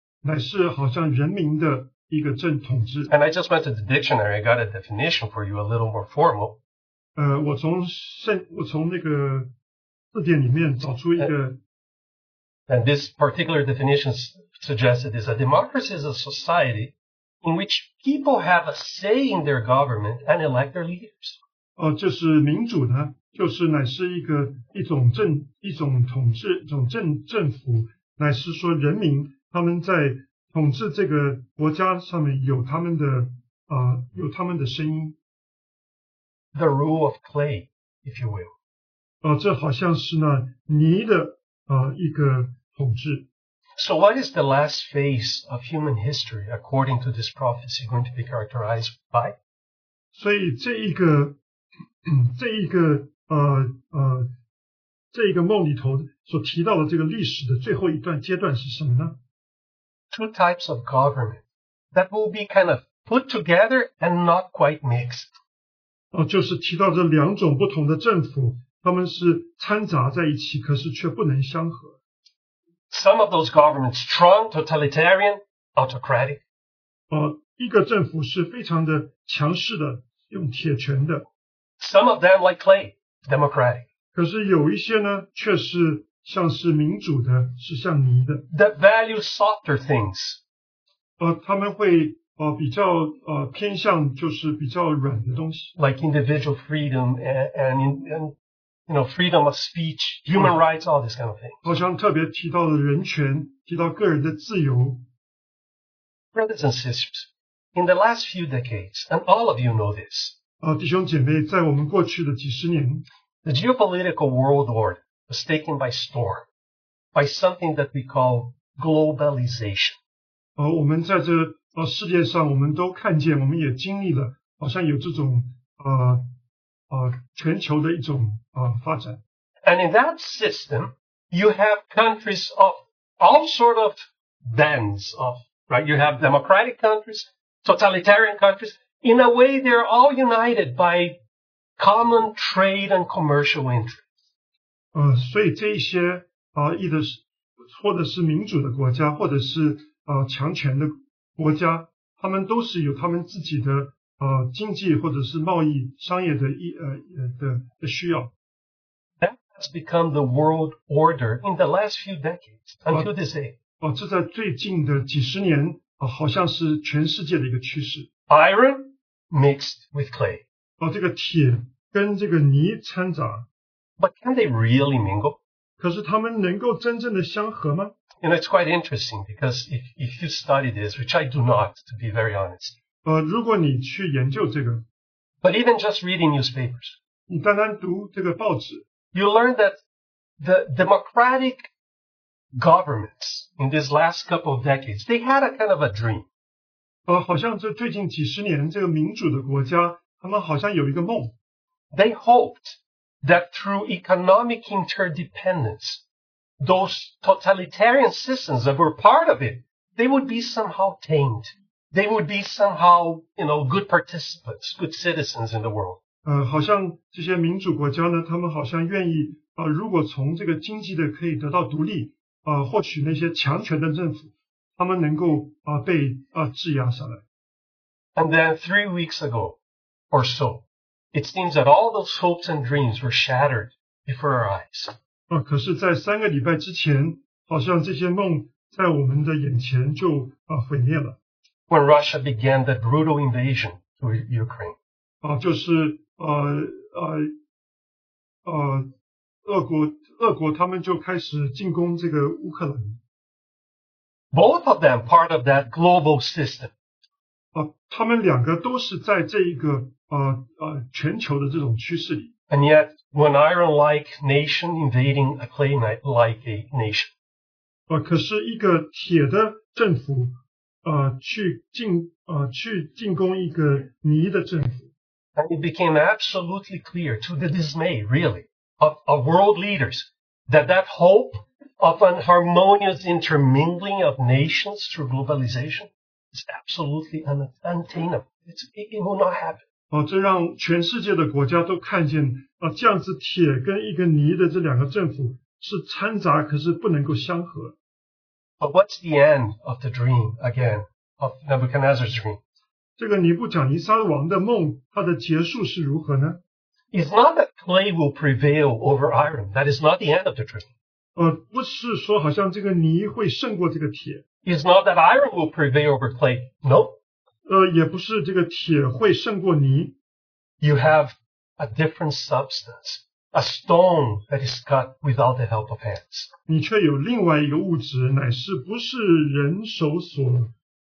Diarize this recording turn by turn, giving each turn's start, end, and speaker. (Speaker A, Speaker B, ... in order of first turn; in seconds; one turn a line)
Speaker A: 0.2-3.1
Speaker B: 3.1-6.6
Speaker A: 7.2-9.5
Speaker A: 10.1-11.6
Speaker B: 12.7-21.4
Speaker A: 21.8-35.1
Speaker B: 36.5-38.5
Speaker A: 39.2-43.2
Speaker B: 43.8-49.3
Speaker A: 50.1-51.4
Speaker A: 52.0-54.3
Speaker A: 55.1-59.2
Speaker B: 60.1-65.3
Speaker A: 66.1-72.0
Speaker B: 72.9-76.4
Speaker A: 77.1-81.2
Speaker B: 81.8-83.8
Speaker A: 84.1-88.5
Speaker B: 88.5-90.4
Speaker A: 91.2-95.7
Speaker B: 95.8-98.3
Speaker B: 98.9-101.6
Speaker A: 101.6-105.0
Speaker B: 106.3-110.4
Speaker A: 110.6-113.0
Speaker B: 113.4-116.5
Speaker B: 117.1-120.0
Speaker A: 120.6-126.2
Speaker A: 126.9-129.2
Speaker B: 129.6-141.2
Speaker B: 141.8-144.0
Speaker A: 144.9-158.3
Speaker B: 159.2-163.6
Speaker A: 163.8-168.1
Speaker B: 168.3-170.4
Speaker A: 170.8-173.5
Speaker B: 174.0-175.4
Speaker A: 175.8-177.9
Speaker B: 178.2-182.8
Speaker A: 183.0-184.8
Speaker B: 185.4-187.0
Speaker A: 187.3-188.8
Speaker B: 189.1-189.8
Speaker B: 190.4-191.7
Speaker B: 192.6-196.2
Speaker A: 197.1-201.3
Speaker B: 201.9-206.0
Speaker B: 206.6-216.0
Speaker A: 216.2-227.2
Speaker B: 228.2-229.6
Speaker B: 230.1-234.9
Speaker A: 235.3-241.2
Speaker B: 241.7-244.8
Speaker A: 245.2-247.3
Speaker A: 248.4-248.9
Speaker A: 249.4-253.0
Speaker B: 254.3-256.7
Speaker A: 257.5-262.3
Speaker B: 262.5-267.1
Speaker A: 267.9-274.9
Speaker B: 275.4-289.6
Speaker A: 289.9-297.8
Speaker B: 298.6-302.4
Speaker A: 303.0-306.4
Speaker B: 306.9-310.7
Speaker A: 311.1-314.2
Speaker B: 314.4-316.9
Speaker A: 317.4-319.9
Speaker B: 320.6-326.3
Speaker A: 326.5-330.5